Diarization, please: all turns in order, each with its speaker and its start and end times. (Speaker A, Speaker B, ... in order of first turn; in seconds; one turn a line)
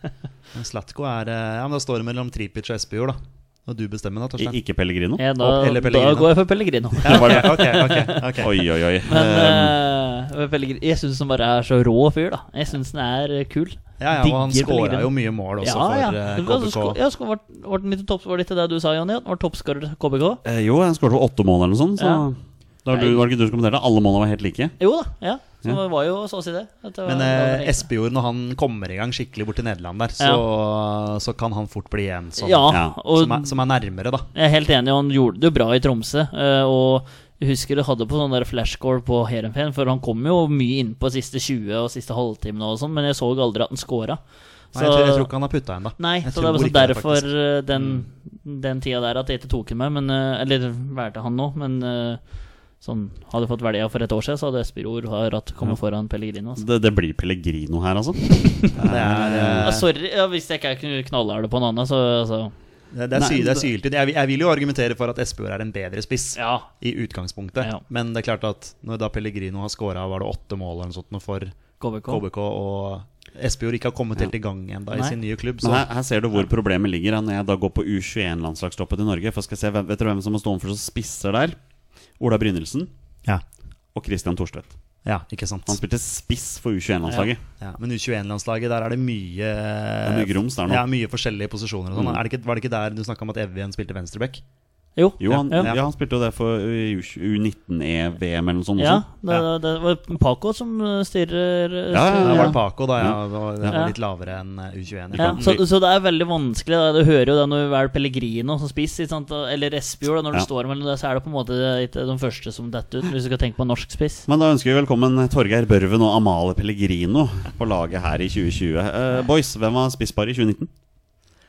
Speaker A: 0.5-4.6
Speaker B: 4.4-5.2
Speaker C: 5.2-8.2
Speaker A: 5.4-6.3
Speaker A: 7.0-8.5
Speaker B: 7.1-7.7
Speaker B: 8.4-9.8
Speaker C: 9.1-20.4
Speaker A: 14.0-17.0
Speaker B: 20.4-24.8
Speaker C: 22.0-22.3
Speaker C: 22.9-23.2
Speaker C: 24.8-27.9
Speaker A: 27.1-34.3
Speaker C: 32.4-33.6
Speaker B: 32.7-33.0
Speaker C: 34.3-44.2
Speaker C: 44.7-45.3
Speaker A: 44.7-47.3
Speaker C: 46.0-56.6
Speaker B: 56.6-59.7
Speaker C: 58.4-58.7
Speaker A: 58.8-59.9
Speaker C: 59.6-62.5
Speaker A: 62.9-71.6
Speaker B: 63.1-63.6
Speaker C: 66.3-66.7
Speaker C: 71.8-72.2
Speaker A: 72.1-75.9
Speaker B: 75.6-81.6
Speaker B: 82.2-82.9
Speaker B: 84.0-84.7
Speaker A: 85.0-85.8
Speaker B: 85.7-87.4
Speaker A: 87.6-94.4
Speaker B: 90.0-90.8
Speaker B: 91.9-92.2
Speaker C: 95.0-95.7
Speaker B: 95.2-99.0
Speaker A: 95.5-95.8
Speaker C: 98.8-102.6
Speaker B: 101.9-103.8
Speaker A: 102.2-105.5
Speaker C: 103.7-103.9
Speaker B: 105.1-105.6
Speaker C: 105.2-114.3
Speaker B: 114.3-120.7